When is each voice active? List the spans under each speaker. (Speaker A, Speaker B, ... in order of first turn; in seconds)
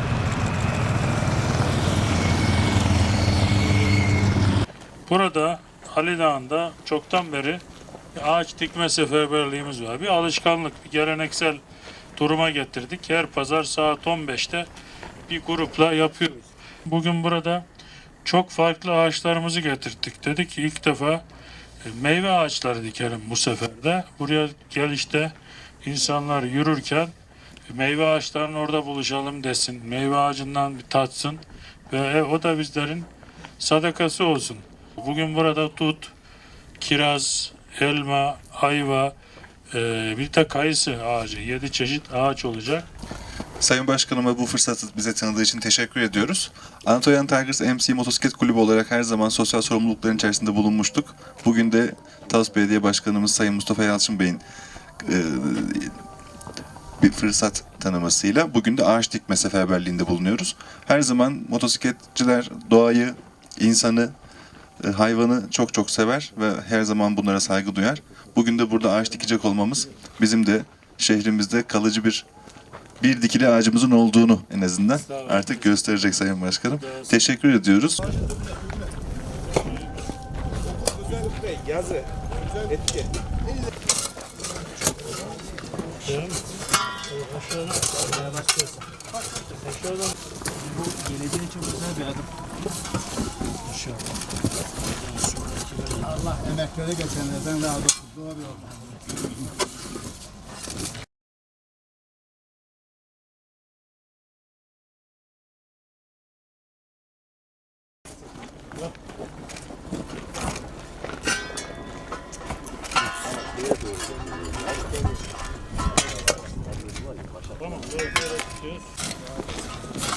Speaker A: 5.0-11.6, 12.2-14.7, 15.3-17.6, 18.2-21.2, 21.8-27.1, 27.7-36.1, 36.8-39.1, 39.7-42.9, 74.9-76.1, 76.8-77.3, 86.0-86.5, 87.1-88.8, 89.4-90.1, 93.6-94.1, 95.1-96.2, 117.6-118.9
Speaker B: 43.6-54.4, 55.0-56.0, 57.0-64.1, 64.8-72.2, 73.0-78.1
Speaker C: 81.4-82.0, 82.7-83.0, 90.7-92.2, 96.2-98.5